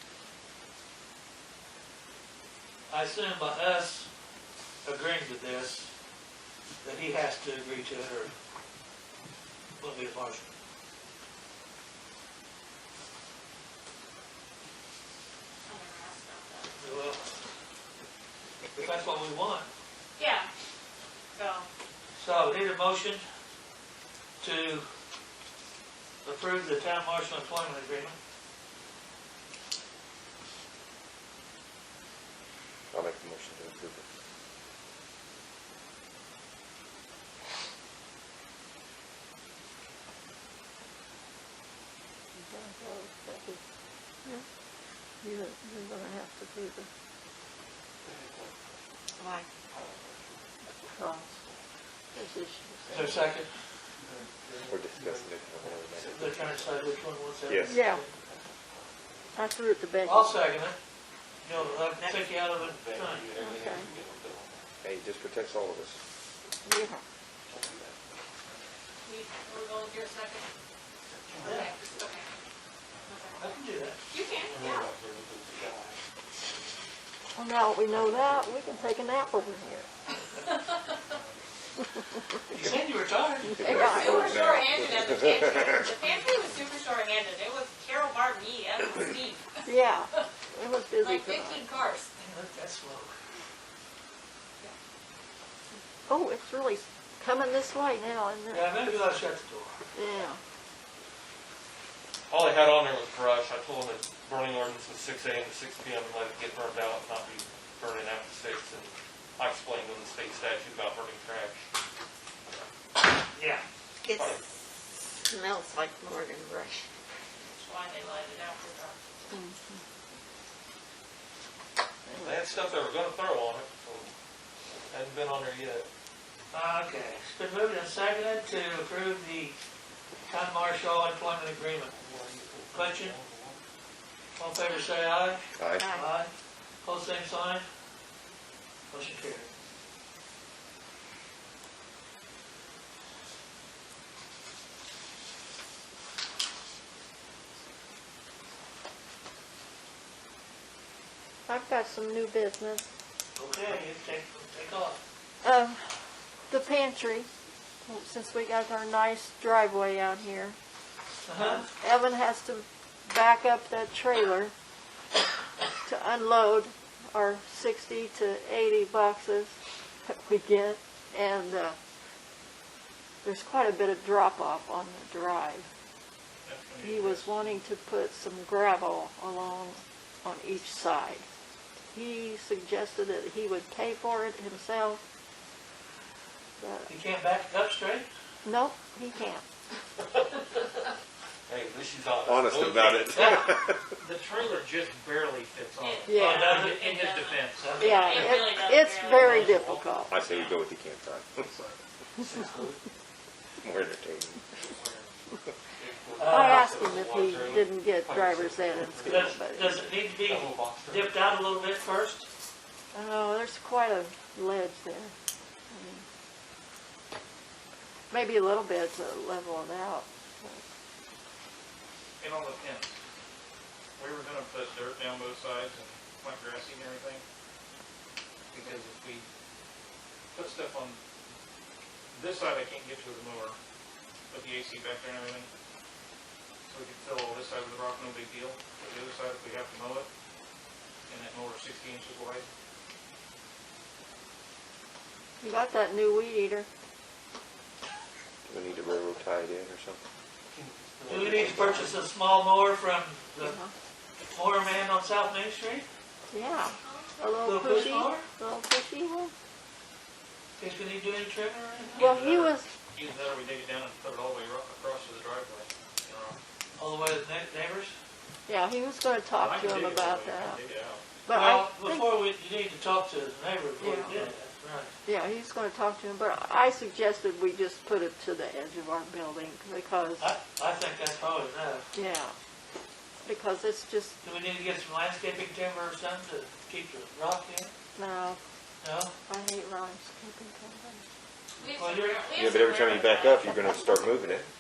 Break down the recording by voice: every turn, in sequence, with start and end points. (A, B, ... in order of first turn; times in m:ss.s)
0:02.9-0:04.1 A
0:04.8-0:05.9 A
0:06.8-0:08.3 A
0:09.8-0:10.5 A
0:15.6-0:17.0 B
0:16.8-0:17.4 A
0:18.8-0:19.7 A
0:20.2-0:20.5 B
0:21.3-0:21.7 B
0:22.2-0:23.2 A
0:24.4-0:24.9 A
0:26.2-0:28.2 A
0:32.9-0:34.0 C
0:42.4-0:43.6 D
0:45.2-0:46.9 D
0:48.0-0:48.6 E
0:49.7-0:50.3 E
0:50.9-0:51.3 D
0:52.1-0:53.3 D
0:52.9-0:53.5 A
0:54.0-0:56.9 E
0:54.7-0:56.3 C
0:56.2-0:58.1 A
0:57.5-0:57.8 C
0:57.7-0:58.0 D
0:58.1-0:58.5 E
0:59.4-1:00.4 D
1:00.0-1:00.8 A
1:01.4-1:03.3 A
1:01.5-1:04.7 E
1:03.4-1:03.9 D
1:04.8-1:06.0 C
1:06.6-1:07.0 D
1:07.4-1:08.0 E
1:09.0-1:10.5 B
1:11.1-1:12.1 E
1:11.4-1:12.3 B
1:11.4-1:11.7 A
1:13.1-1:13.4 B
1:13.4-1:14.0 A
1:14.1-1:14.9 B
1:14.5-1:16.0 E
1:17.4-1:19.9 D
1:18.2-1:18.5 E
1:20.5-1:21.0 B
1:21.1-1:21.4 F
1:22.5-1:23.8 A
1:23.5-1:24.4 D
1:23.6-1:25.8 C
1:23.8-1:29.6 B
1:29.6-1:31.7 D
1:31.0-1:32.2 B
1:32.2-1:33.2 A
1:36.1-1:39.2 D
1:38.5-1:39.7 A
1:39.9-1:40.4 D
1:42.3-1:51.7 E
1:53.3-1:53.6 A
1:54.0-1:54.4 G
1:54.1-1:54.4 E
1:55.2-1:56.9 G
1:57.6-1:59.0 B
1:59.3-1:59.8 D
2:02.1-2:02.4 D
2:02.2-2:04.1 E
2:04.9-2:05.9 E
2:06.5-2:09.6 A
2:10.3-2:11.9 A
2:11.9-2:13.6 E
2:12.7-2:13.2 A
2:14.4-2:16.3 A
2:15.6-2:16.0 C
2:16.8-2:17.6 A
2:18.9-2:19.5 A
2:31.5-2:32.9 D
2:33.4-2:35.0 A
2:35.4-2:35.8 D
2:36.5-2:37.3 D
2:37.8-2:40.6 D
2:41.2-2:41.7 A
2:41.4-2:44.5 D
2:45.8-2:49.5 D
2:50.1-2:51.8 D
2:53.2-2:55.7 D
2:56.4-2:57.6 F
2:56.8-3:01.2 D
3:01.9-3:05.0 D
3:06.6-3:06.9 D
3:06.9-3:08.1 A
3:08.4-3:09.5 D
3:11.5-3:13.4 E
3:12.3-3:13.9 C
3:14.0-3:17.8 F
3:15.8-3:19.8 B
3:16.1-3:16.5 D
3:16.2-3:16.8 A
3:17.6-3:18.5 A
3:17.8-3:20.1 D
3:19.2-3:19.6 A
3:20.1-3:21.5 C
3:21.5-3:21.8 F
3:22.2-3:22.8 E
3:23.6-3:24.4 C
3:24.6-3:25.2 F
3:25.8-3:29.4 E
3:26.2-3:26.7 A
3:26.3-3:29.8 D
3:29.0-3:32.3 A
3:30.2-3:31.3 E
3:32.9-3:35.2 D
3:35.7-3:36.0 D
3:38.1-3:40.6 D
3:42.2-3:43.0 F
3:44.0-3:47.2 F
3:48.5-3:49.3 F
3:50.3-3:51.0 F
3:52.1-3:53.6 F
3:54.3-3:55.5 F
3:56.6-4:00.1 F
4:01.1-4:02.5 F
4:05.4-4:06.7 D
4:08.5-4:10.0 C
4:10.5-4:12.0 E
4:11.1-4:13.6 A
4:13.4-4:13.7 D
4:14.3-4:15.9 A
4:16.3-4:19.3 D
4:16.8-4:17.4 B
4:17.4-4:18.2 A
4:20.6-4:22.2 A
4:22.0-4:22.7 D
4:22.0-4:26.4 F
4:26.8-4:27.9 A
4:28.5-4:30.6 D
4:29.4-4:31.0 F
4:31.2-4:32.2 D
4:31.3-4:34.9 A
4:33.8-4:34.2 D
4:35.0-4:40.3 D
4:40.2-4:41.9 A
4:41.9-4:42.4 D
4:43.2-4:44.2 D
4:44.2-4:47.7 A
4:48.0-4:48.4 D
4:48.8-4:49.1 A
4:49.3-4:51.1 D
4:51.6-4:53.9 B
4:51.7-4:52.3 A
4:52.3-4:54.4 C